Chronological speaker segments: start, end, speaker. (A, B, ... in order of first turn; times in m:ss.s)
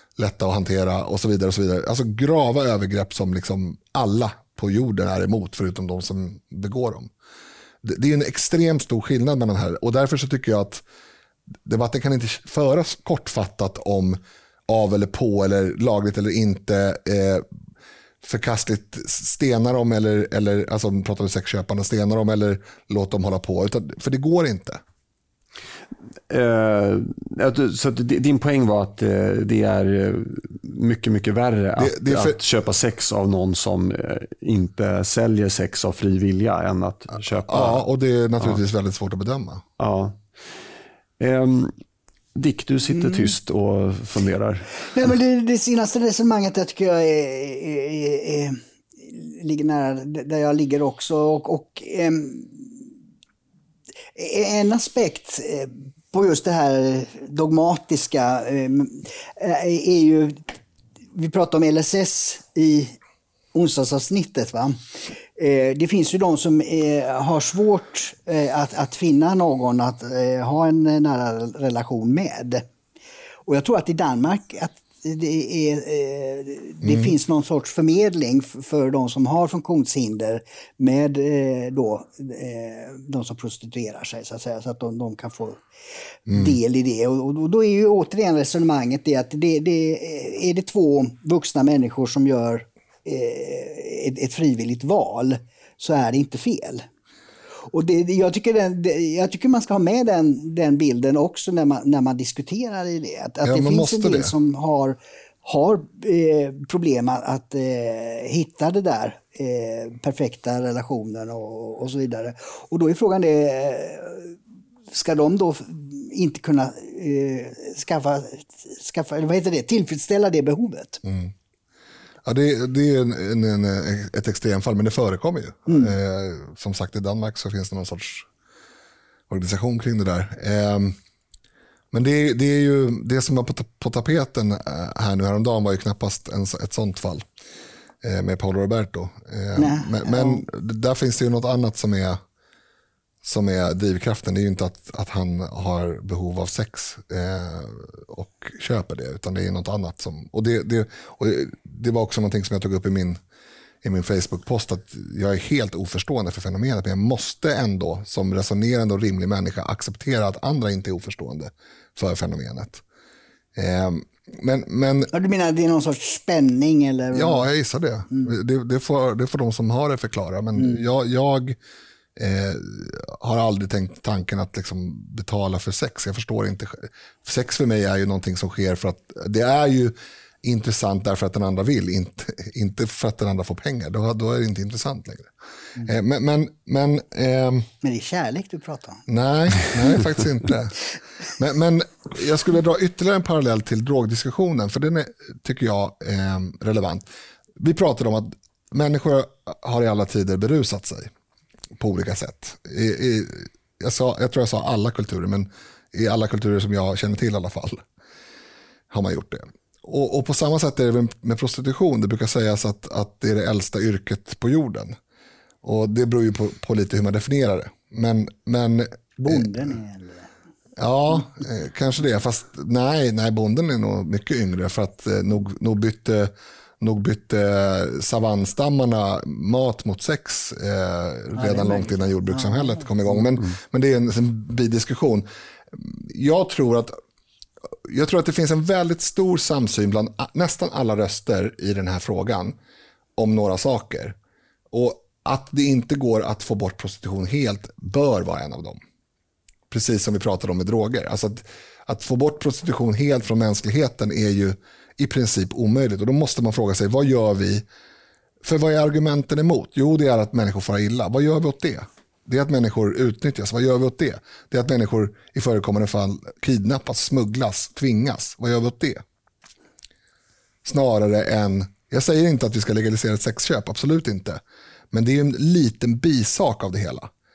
0:00.2-0:07.1 A
0:07.8-0:10.8 A
0:11.6-0:17.4 A
0:18.2-0:24.8 A
0:26.3-0:37.8 B
0:31.8-0:32.4 A
0:37.4-0:39.6 A
0:39.8-0:40.2 B
0:41.2-0:41.7 B
0:42.4-0:44.8 B
0:44.9-0:52.8 C
0:54.2-1:00.4 C
1:01.2-1:02.9 C
1:03.5-1:04.8 C
1:05.4-1:12.7 C
1:13.5-1:25.6 C
1:16.8-1:17.1 A
1:26.3-1:26.6 A
1:26.3-1:36.8 C
1:37.7-1:54.4 C
1:43.4-1:44.3 A
1:54.9-2:01.0 C
2:01.0-2:01.3 A
2:02.2-2:08.3 A
2:05.7-2:05.9 C
2:09.3-2:11.0 A
2:11.9-2:17.3 A
2:18.0-2:22.2 A
2:19.6-2:20.4 C
2:23.2-2:33.2 A
2:33.8-2:42.8 A
2:43.6-2:45.1 A
2:45.1-2:47.4 C
2:47.1-2:51.6 A
2:50.6-2:50.8 C
2:52.2-3:07.7 A
3:07.8-3:09.1 C
3:09.1-3:10.8 A
3:11.4-3:17.1 A
3:17.6-3:21.1 A
3:21.8-3:27.8 A
3:28.9-3:35.0 A
3:35.6-3:39.5 A
3:39.2-3:40.3 C
3:40.8-3:57.0 A
3:51.4-3:52.8 C
3:57.8-4:02.6 A
4:03.2-4:04.2 A
4:04.7-4:08.8 A
4:09.7-4:17.6 A
4:18.4-4:29.0 A
4:30.6-4:34.4 A
4:34.9-4:37.1 A